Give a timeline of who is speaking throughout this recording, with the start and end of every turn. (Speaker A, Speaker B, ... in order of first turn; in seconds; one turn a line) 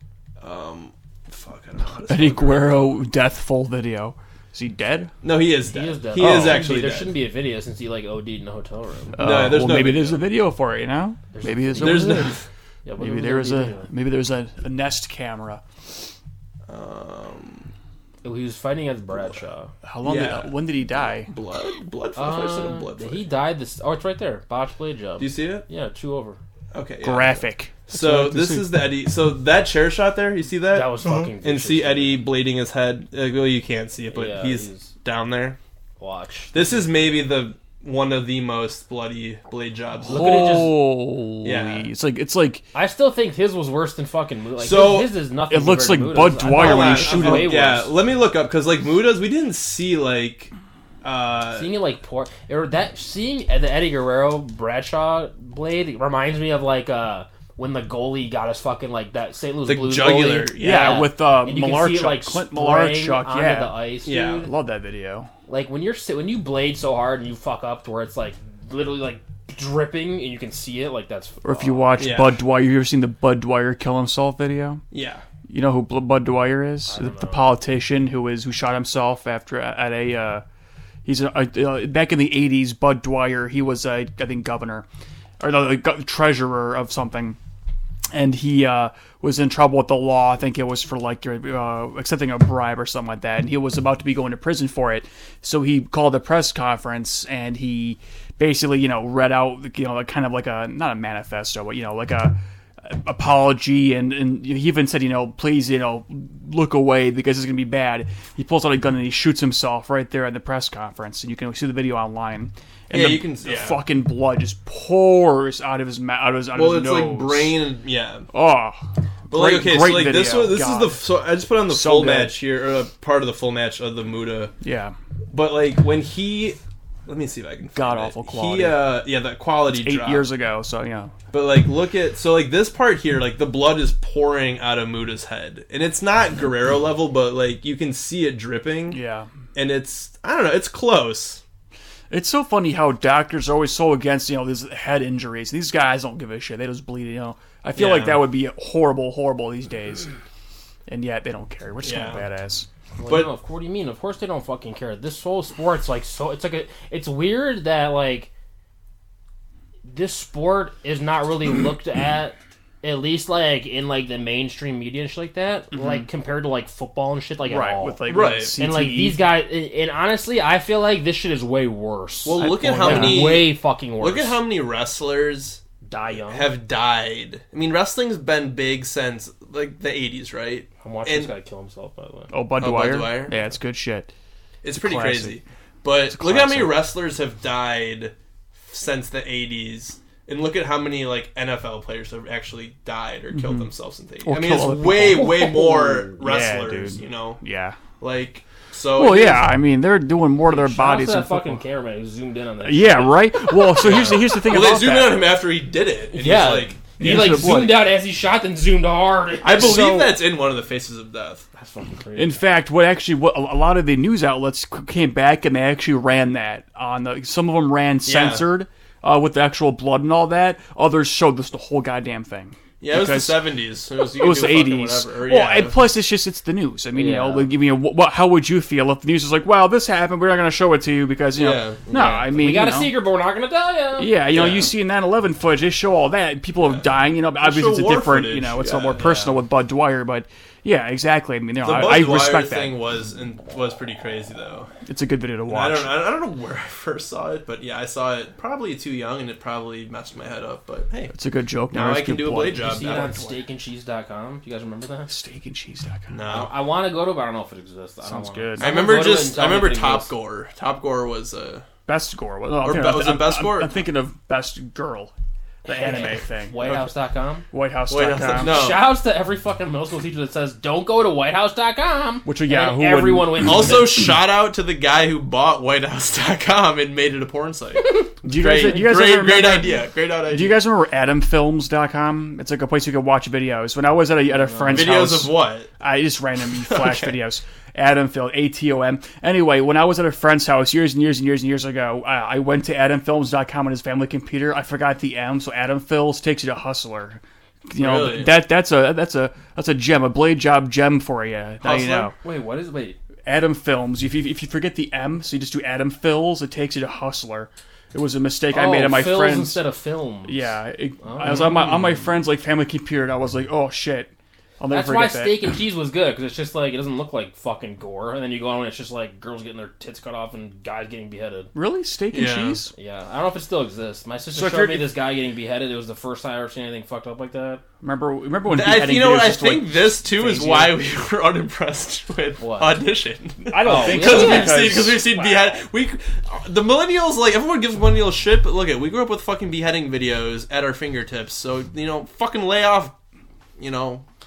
Speaker A: 0.4-3.0
Speaker B: 2.1-5.1
Speaker A: 5.2-7.2
Speaker C: 5.7-9.2
Speaker B: 6.2-6.7
Speaker B: 9.2-12.4
Speaker A: 9.2-10.2
Speaker C: 11.3-13.9
Speaker A: 11.8-12.4
Speaker B: 13.0-15.6
Speaker A: 16.7-17.7
Speaker C: 18.2-19.7
Speaker B: 19.8-21.3
Speaker A: 20.0-23.3
Speaker C: 22.2-26.4
Speaker A: 25.2-25.6
Speaker A: 26.7-35.6
Speaker B: 27.0-28.7
Speaker C: 30.7-32.2
Speaker C: 34.1-34.9
Speaker C: 36.0-36.8
Speaker A: 36.5-40.8
Speaker B: 40.0-42.6
Speaker C: 40.1-40.8
Speaker A: 41.4-41.9
Speaker C: 42.7-47.9
Speaker A: 44.6-45.1
Speaker B: 45.5-47.6
Speaker A: 46.4-51.7
Speaker C: 51.5-64.5
Speaker A: 59.6-61.1
Speaker B: 60.6-63.8
Speaker A: 64.0-64.5
Speaker B: 64.4-65.3
Speaker C: 65.5-72.0
Speaker B: 71.4-74.8
Speaker A: 72.0-72.4
Speaker A: 74.9-75.2
Speaker B: 75.5-80.4
Speaker C: 76.9-77.5
Speaker B: 81.0-84.9
Speaker B: 85.4-87.4
Speaker B: 88.1-117.6
Speaker A: 112.9-113.8
Speaker A: 116.5-118.3
Speaker B: 118.3-121.0
Speaker A: 119.3-124.5
Speaker B: 121.7-122.4
Speaker B: 124.6-125.0
Speaker A: 125.3-130.3
Speaker B: 127.8-128.9
Speaker B: 129.7-131.1
Speaker A: 131.3-139.0
Speaker B: 138.9-139.3
Speaker A: 139.6-141.4
Speaker B: 142.1-150.1
Speaker A: 147.8-148.3
Speaker B: 150.9-152.7
Speaker A: 151.8-152.2
Speaker C: 153.0-158.3
Speaker C: 159.8-174.4
Speaker B: 165.7-166.1
Speaker B: 167.4-169.2
Speaker A: 168.1-168.6
Speaker A: 172.3-175.6
Speaker B: 172.4-173.4
Speaker C: 175.8-176.5
Speaker A: 176.3-181.3
Speaker C: 180.8-182.3
Speaker B: 182.3-184.1
Speaker A: 182.6-183.4
Speaker A: 184.6-188.1
Speaker B: 184.7-185.4
Speaker B: 186.1-186.8
Speaker A: 188.7-197.4
Speaker B: 193.3-193.7
Speaker B: 194.2-195.4
Speaker C: 195.1-196.2
Speaker B: 196.2-197.8
Speaker A: 198.0-199.6
Speaker B: 198.9-201.6
Speaker C: 200.4-203.9
Speaker B: 202.6-205.3
Speaker A: 203.8-207.4
Speaker C: 206.1-209.9
Speaker B: 207.0-207.8
Speaker A: 209.4-211.5
Speaker B: 209.5-210.1
Speaker C: 211.6-212.4
Speaker B: 212.2-233.0
Speaker A: 218.1-218.5
Speaker A: 222.8-225.9
Speaker C: 226.9-227.5
Speaker A: 231.3-232.0
Speaker C: 231.9-234.6
Speaker B: 234.0-242.8
Speaker A: 234.3-234.7
Speaker A: 236.6-239.4
Speaker A: 241.6-244.7
Speaker B: 244.9-246.0
Speaker A: 245.5-251.1
Speaker B: 251.1-252.8
Speaker A: 251.7-253.4
Speaker C: 252.6-255.1
Speaker B: 255.1-256.2
Speaker A: 256.1-256.5
Speaker C: 256.3-260.1
Speaker B: 258.0-258.8
Speaker A: 258.6-261.7
Speaker B: 261.9-265.1
Speaker A: 262.6-263.7
Speaker B: 265.6-266.6
Speaker C: 265.6-267.5
Speaker B: 267.5-268.6
Speaker A: 267.9-268.9
Speaker C: 268.4-273.9
Speaker B: 272.2-273.9
Speaker A: 273.4-280.7
Speaker B: 278.2-302.1
Speaker C: 284.3-284.9
Speaker A: 284.7-285.7
Speaker A: 286.6-287.2
Speaker A: 297.8-298.5
Speaker A: 301.6-302.1
Speaker C: 302.2-303.0
Speaker B: 303.2-309.6
Speaker C: 308.5-312.0
Speaker B: 310.3-315.5
Speaker C: 314.7-321.5
Speaker B: 321.6-322.7
Speaker A: 322.1-322.6
Speaker C: 322.8-327.6
Speaker B: 324.3-324.9
Speaker B: 327.8-330.8
Speaker A: 328.5-342.9
Speaker C: 332.4-332.8
Speaker B: 333.5-335.6
Speaker C: 333.6-334.8
Speaker A: 343.6-344.1